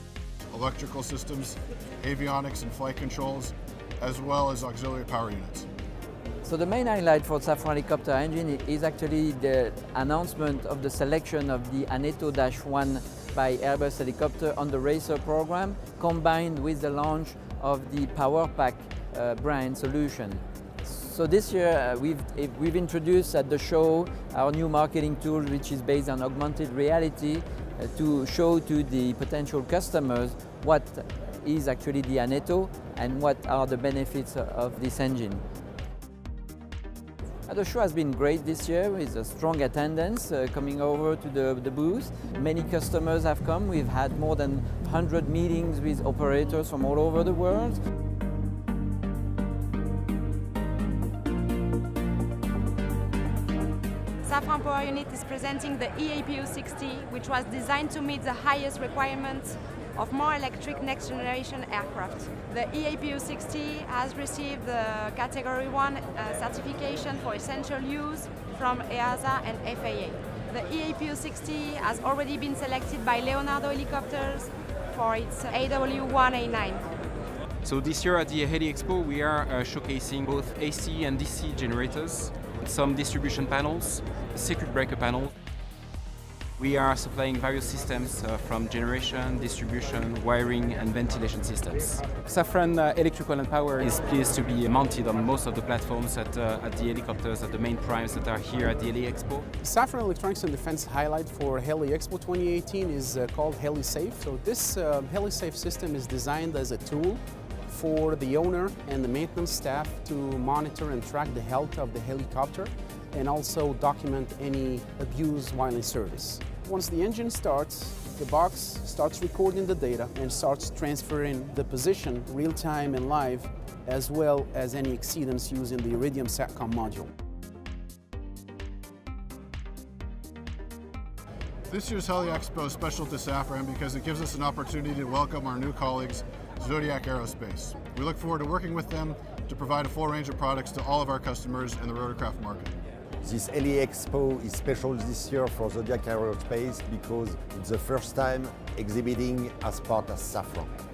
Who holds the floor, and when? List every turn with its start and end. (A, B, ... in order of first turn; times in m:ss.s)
0:00.5-0:05.7 A
0:06.4-0:35.4 B
0:37.5-0:47.8 B
0:54.2-1:16.9 C
1:17.6-1:25.3 D
1:26.6-1:39.4 D
1:39.6-1:47.2 E
1:47.7-2:07.0 E
2:11.7-2:22.7 A
2:23.2-2:30.7 F